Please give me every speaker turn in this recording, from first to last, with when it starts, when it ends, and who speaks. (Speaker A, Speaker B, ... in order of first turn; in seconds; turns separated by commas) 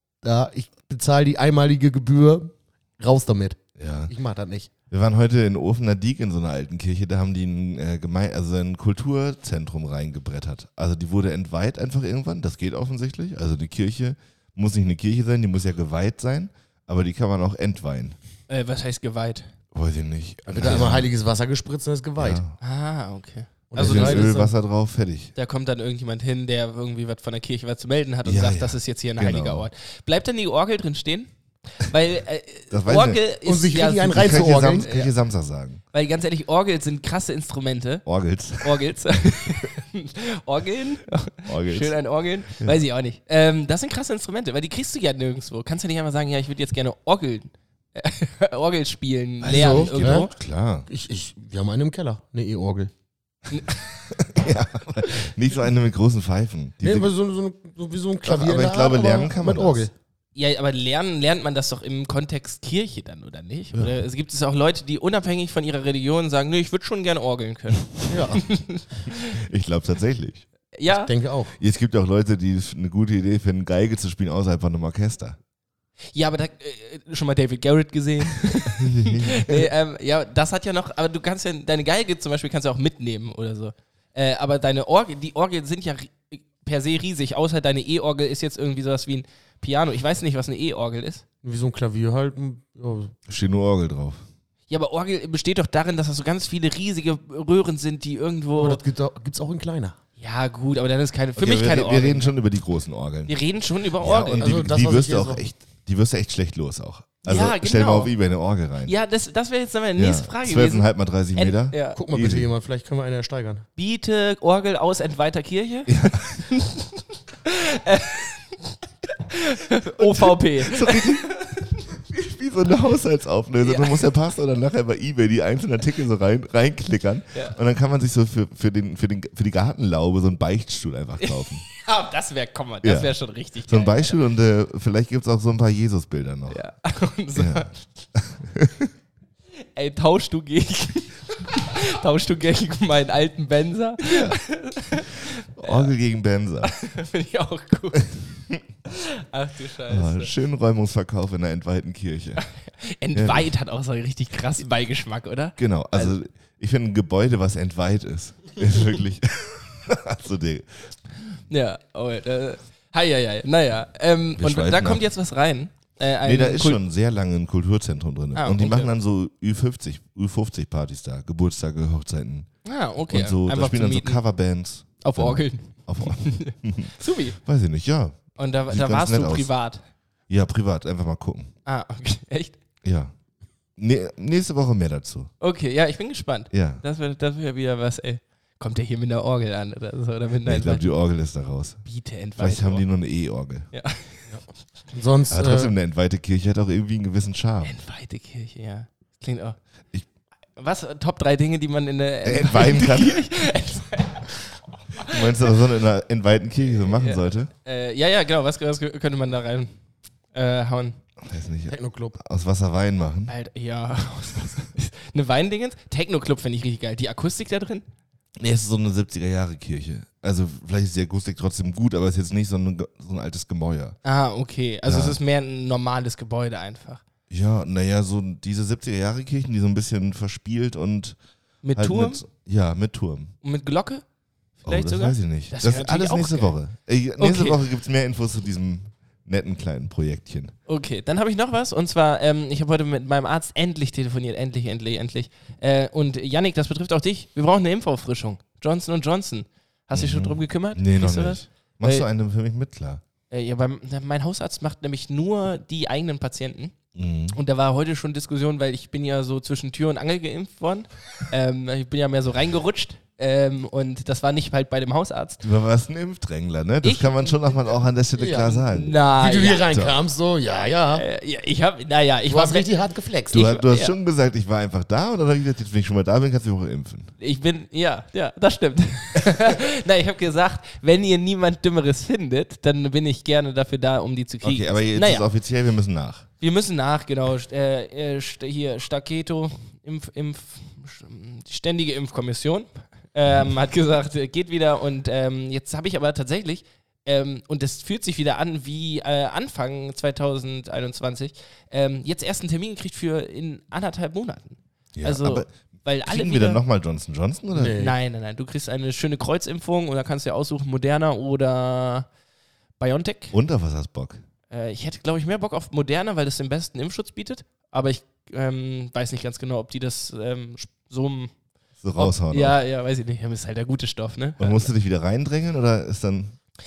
Speaker A: 0.2-4.7, Speaker B: 3.8-4.1, Speaker B: 4.9-18.2, Speaker C: 18.5-19.5, Speaker B: 19.7-21.1, Speaker A: 20.5-22.4, Speaker B: 22.2-22.6, Speaker C: 22.6-24.3, Speaker A: 23.7-24.5, Speaker B: 23.8-25.3, Speaker C: 25.4-35.1, Speaker B: 28.2-29.7, Speaker B: 32.7-33.2, Speaker A: 33.5-35.1, Speaker B: 34.1-35.8, Speaker C: 35.9-38.1, Speaker B: 38.1-38.8, Speaker C: 38.6-50.3, Speaker B: 41.5-42.0, Speaker B: 49.4-50.9, Speaker A: 49.5-50.3, Speaker A: 50.9-52.9, Speaker C: 53.5-53.9, Speaker B: 54.1-57.1, Speaker A: 56.8-59.9, Speaker B: 58.2-59.9, Speaker C: 60.4-69.4, Speaker A: 68.1-68.4, Speaker B: 69.4-70.5, Speaker C: 70.7-71.1, Speaker A: 70.9-71.5, Speaker B: 71.6-75.4, Speaker C: 76.1-91.2, Speaker B: 78.7-79.7, Speaker A: 91.4-93.2, Speaker B: 93.3-94.2, Speaker C: 94.7-98.8, Speaker A: 98.6-100.0, Speaker C: 100.2-102.3, Speaker B: 101.4-103.3, Speaker C: 103.3-104.5, Speaker B: 104.0-108.9, Speaker A: 104.3-105.4, Speaker C: 107.2-108.1, Speaker C: 108.8-112.0, Speaker B: 110.0-112.5, Speaker A: 112.0-113.7, Speaker C: 113.8-121.8, Speaker B: 115.9-116.4, Speaker B: 120.0-121.3, Speaker B: 122.1-131.7, Speaker C: 123.6-124.1, Speaker C: 131.2-134.2, Speaker B: 132.8-136.6, Speaker C: 136.5-137.8, Speaker B: 137.3-138.9, Speaker C: 139.8-145.9, Speaker B: 144.0-144.4, Speaker B: 145.6-146.8, Speaker C: 146.6-148.2, Speaker C: 148.9-150.3, Speaker B: 149.9-152.4, Speaker C: 152.5-156.2, Speaker B: 153.1-153.5, Speaker B: 155.6-160.9, Speaker C: 161.5-166.8, Speaker B: 164.4-165.0, Speaker B: 166.2-172.5, Speaker C: 168.3-168.9, Speaker C: 172.7-174.2, Speaker B: 173.1-179.5, Speaker C: 175.0-177.4, Speaker C: 178.4-179.8, Speaker B: 180.3-181.5, Speaker C: 181.7-182.6, Speaker B: 182.8-183.1, Speaker B: 183.8-185.3, Speaker C: 185.4-190.9, Speaker B: 186.5-186.8, Speaker B: 190.4-191.8, Speaker C: 191.8-192.8, Speaker B: 192.4-193.7, Speaker C: 193.7-194.3, Speaker A: 194.9-195.7, Speaker B: 195.3-197.8, Speaker C: 197.6-199.6, Speaker C: 200.6-205.3, Speaker B: 202.2-203.2, Speaker B: 205.1-207.5, Speaker C: 206.8-209.8, Speaker C: 210.3-211.0, Speaker B: 211.2-213.3, Speaker A: 211.7-212.2, Speaker C: 213.3-217.8, Speaker B: 218.4-224.0, Speaker C: 224.0-227.0, Speaker B: 224.9-225.2, Speaker B: 227.3-231.2, Speaker C: 231.6-232.2, Speaker B: 231.8-233.3, Speaker C: 233.4-234.0, Speaker C: 234.6-236.6, Speaker B: 234.7-240.6, Speaker C: 237.2-237.6, Speaker C: 240.7-252.1, Speaker B: 249.9-253.0, Speaker C: 253.3-256.8, Speaker B: 256.9-257.4, Speaker C: 257.3-265.4, Speaker B: 265.4-269.0, Speaker C: 266.8-267.7, Speaker A: 268.2-268.6, Speaker C: 268.5-269.7, Speaker A: 269.2-271.0, Speaker B: 269.7-270.0, Speaker C: 270.9-272.7, Speaker A: 272.3-273.4, Speaker B: 273.3-277.1, Speaker C: 273.3-273.9, Speaker C: 277.2-285.3, Speaker B: 284.4-286.3, Speaker C: 286.4-306.6, Speaker B: 304.9-305.5, Speaker B: 306.1-307.8, Speaker A: 307.5-308.0, Speaker C: 307.8-312.1, Speaker C: 312.8-313.4, Speaker B: 313.3-314.2, Speaker C: 314.5-321.3, Speaker B: 321.8-322.6, Speaker C: 322.0-324.7, Speaker B: 324.4-326.4